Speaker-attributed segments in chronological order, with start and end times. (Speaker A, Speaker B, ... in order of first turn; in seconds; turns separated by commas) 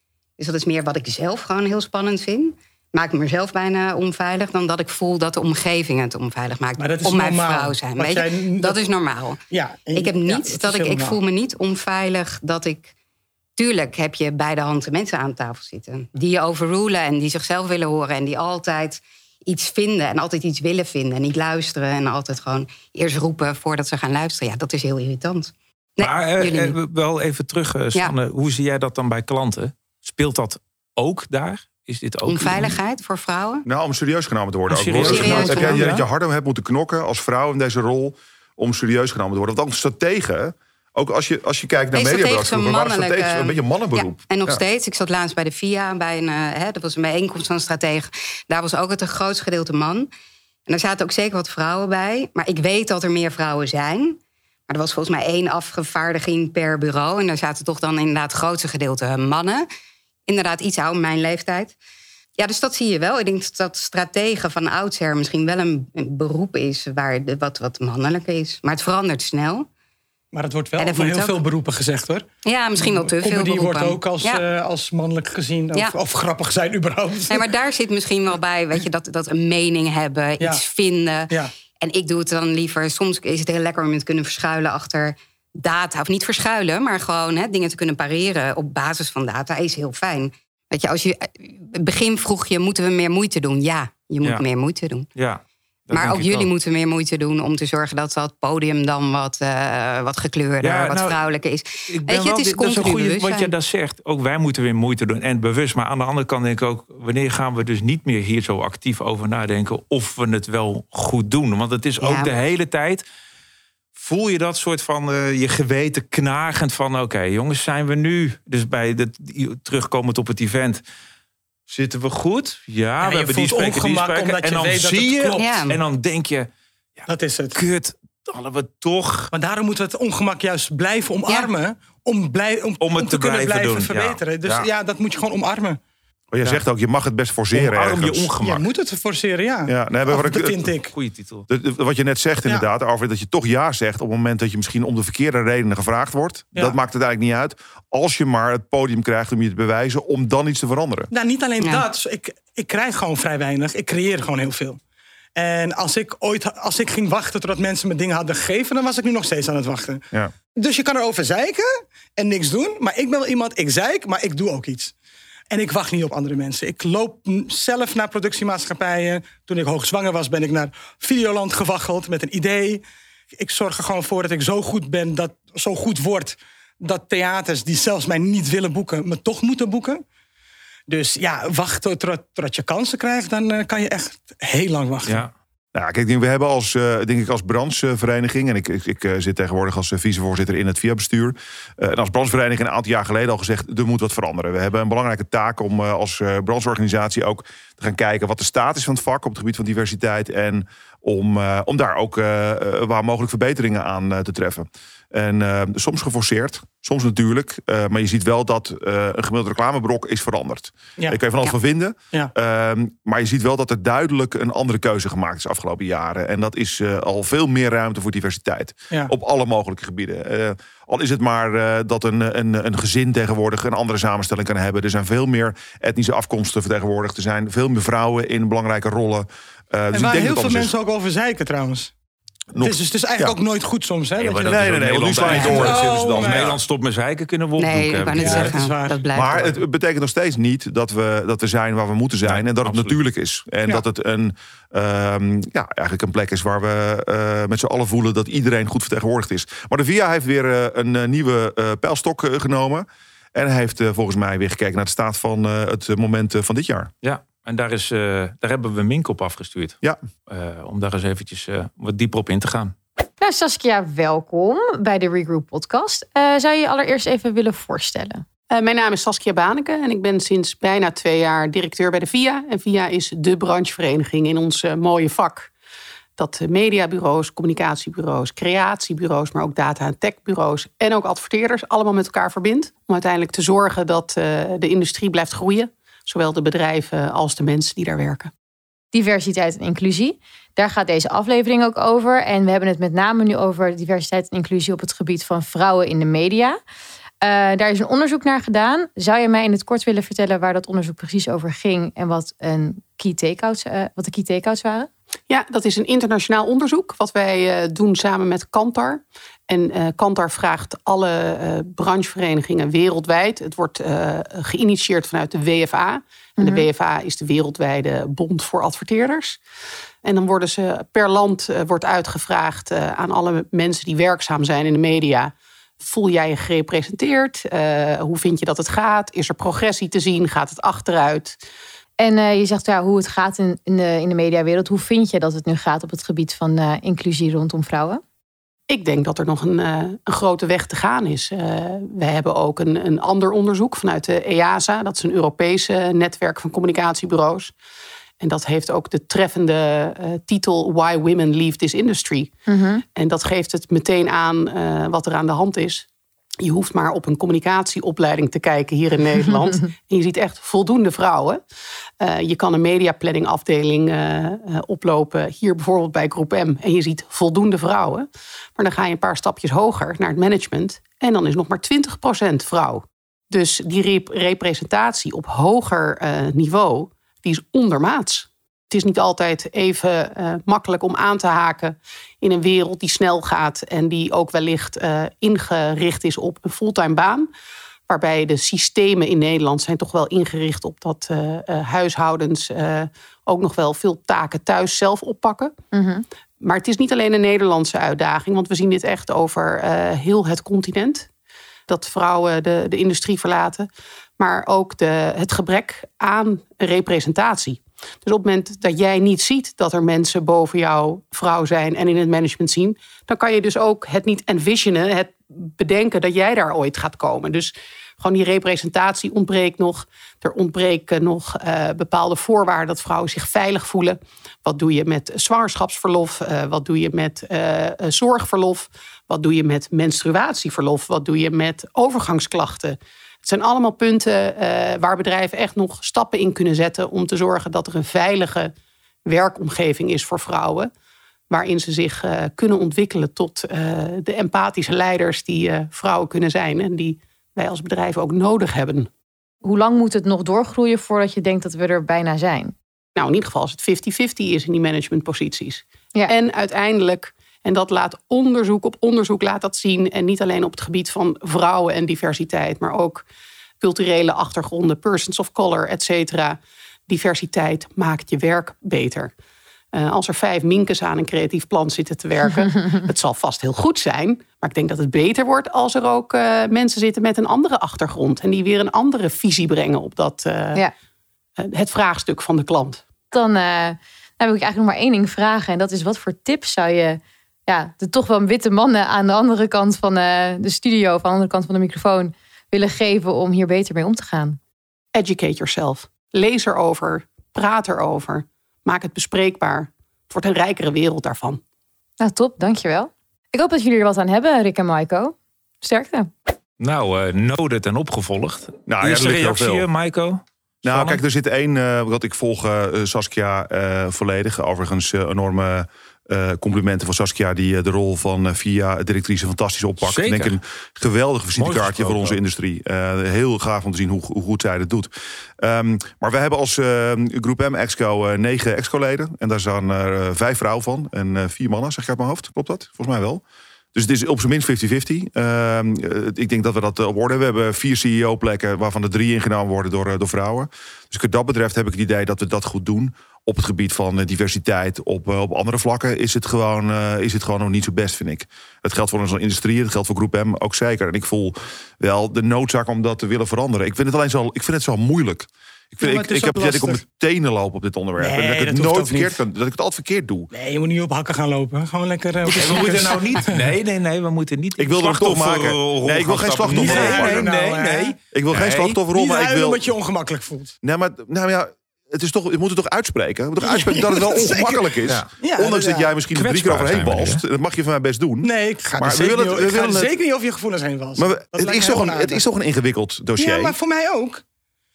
Speaker A: 0.4-9.4, Speaker B: 6.8-8.8, Speaker B: 9.5-11.2, Speaker A: 9.9-12.9, Speaker A: 13.6-26.8, Speaker C: 26.0-32.8, Speaker A: 32.3-33.7, Speaker D: 33.6-44.6, Speaker C: 34.7-36.0, Speaker A: 35.0-35.9, Speaker A: 41.9-50.1, Speaker A: 50.7-54.2, Speaker A: 54.7-59.7, Speaker A: 60.3-61.8, Speaker A: 62.4-69.7, Speaker B: 70.3-77.4, Speaker A: 70.8-71.4, Speaker A: 72.5-74.4, Speaker A: 77.3-95.1, Speaker C: 95.2-96.5, Speaker A: 95.9-103.5, Speaker C: 100.6-101.2, Speaker C: 101.9-113.0, Speaker A: 112.0-112.3, Speaker C: 114.0-120.8, Speaker C: 121.7-129.3, Speaker B: 123.0-125.5, Speaker A: 125.4-125.8, Speaker B: 127.1-127.6, Speaker B: 129.3-135.8, Speaker C: 132.8-134.7, Speaker D: 136.3-138.3, Speaker C: 137.5-138.7, Speaker B: 138.4-140.9, Speaker D: 139.7-140.7, Speaker C: 140.9-141.5, Speaker D: 141.5-151.1, Speaker B: 151.1-154.8, Speaker B: 155.4-164.9, Speaker B: 165.5-172.8, Speaker B: 173.4-180.0, Speaker B: 180.9-185.2, Speaker C: 185.1-185.3, Speaker D: 185.7-230.7, Speaker B: 229.9-231.9, Speaker D: 232.5-233.4, Speaker B: 232.6-234.6, Speaker C: 234.2-238.5, Speaker D: 234.5-236.6, Speaker B: 235.3-236.5, Speaker A: 237.6-239.6, Speaker B: 238.1-239.1, Speaker D: 239.1-256.9, Speaker C: 242.3-243.0, Speaker C: 257.0-262.8, Speaker E: 263.2-268.2, Speaker F: 268.5-275.5, Speaker F: 276.2-288.3, Speaker E: 288.9-296.6, Speaker E: 297.2-304.9, Speaker F: 305.3-319.4, Speaker E: 316.4-316.7, Speaker F: 320.0-331.4, Speaker E: 332.0-338.0, Speaker F: 338.7-347.5, Speaker F: 348.2-352.3, Speaker E: 352.5-352.8, Speaker F: 352.9-355.9, Speaker F: 356.4-361.4, Speaker F: 362.0-387.3, Speaker F: 387.9-395.5, Speaker E: 395.7-396.1, Speaker F: 396.4-401.1, Speaker F: 401.7-403.7, Speaker F: 404.2-438.5, Speaker F: 439.1-440.7, Speaker F: 441.3-448.9, Speaker E: 449.4-452.5, Speaker F: 453.0-463.1, Speaker F: 463.6-469.1, Speaker F: 469.7-480.6, Speaker F: 481.4-482.8, Speaker E: 483.1-494.4, Speaker F: 494.9-501.4, Speaker E: 502.0-506.1, Speaker C: 506.6-511.0, Speaker D: 508.7-509.7, Speaker D: 510.6-533.2, Speaker C: 519.8-520.4, Speaker C: 521.4-522.2, Speaker D: 533.7-560.3, Speaker B: 555.8-556.8, Speaker B: 558.0-559.2, Speaker B: 560.3-563.4, Speaker C: 562.3-568.8, Speaker D: 564.6-567.3, Speaker B: 566.5-568.0, Speaker D: 568.1-569.7, Speaker B: 568.9-570.6, Speaker D: 570.6-579.9, Speaker B: 573.4-575.9, Speaker C: 576.1-577.2, Speaker B: 578.2-582.2, Speaker D: 581.0-583.6, Speaker B: 583.2-584.2